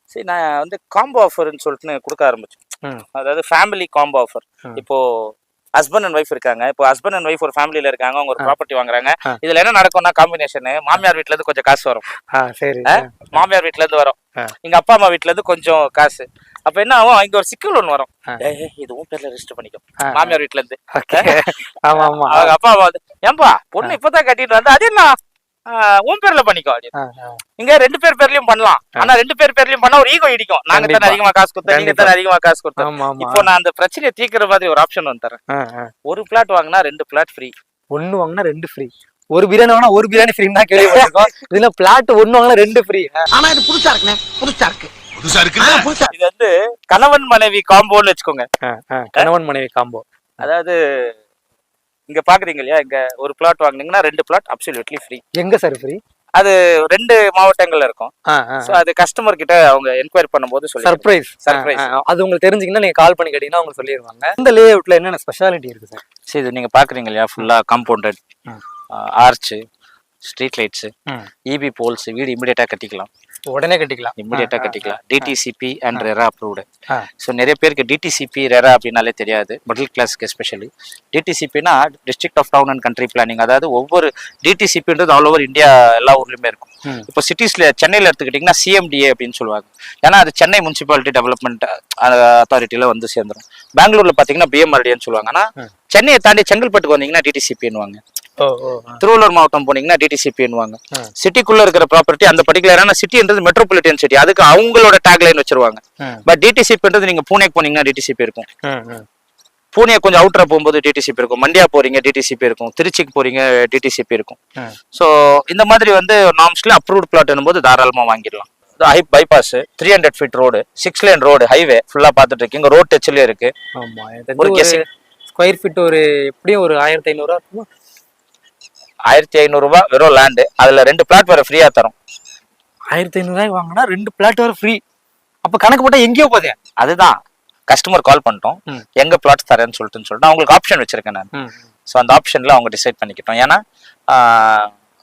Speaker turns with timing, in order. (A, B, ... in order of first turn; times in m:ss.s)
0:00.1-0:02.6 A
0:03.1-0:12.0 A
0:12.3-0:13.3 B
0:12.8-0:25.1 A
0:20.0-0:20.3 B
0:20.9-0:22.5 B
0:25.7-0:26.9 A
0:26.9-0:27.4 B
0:27.6-0:35.4 A
0:30.7-0:32.1 B
0:32.8-0:33.4 B
0:35.5-0:35.9 B
0:36.0-0:37.5 A
0:37.9-0:43.2 B
0:40.8-0:41.2 A
0:43.3-0:46.1 C
0:46.1-0:48.5 A
0:48.6-0:50.0 B
0:50.4-0:51.1 A
0:52.1-0:55.2 A
0:55.3-0:56.0 B
0:56.4-0:58.1 A
0:58.3-0:58.8 B
0:58.6-1:01.8 A
1:00.8-1:06.0 B
1:06.3-1:08.2 A
1:08.9-1:09.6 A
1:10.2-1:10.9 A
1:11.5-1:13.1 A
1:13.5-1:14.9 B
1:14.2-1:16.6 A
1:17.2-1:38.0 A
1:38.4-1:39.0 B
1:39.0-1:48.4 A
1:48.6-1:49.0 B
1:49.7-1:54.4 A
1:54.9-2:03.5 A
2:03.8-2:04.8 B
2:04.4-2:04.8 A
2:05.3-2:07.6 B
2:09.1-2:11.9 A
2:12.9-2:14.8 B
2:15.4-2:16.6 B
2:16.8-2:17.2 A
2:17.7-2:21.3 A
2:21.3-2:21.6 B
2:21.9-2:24.7 A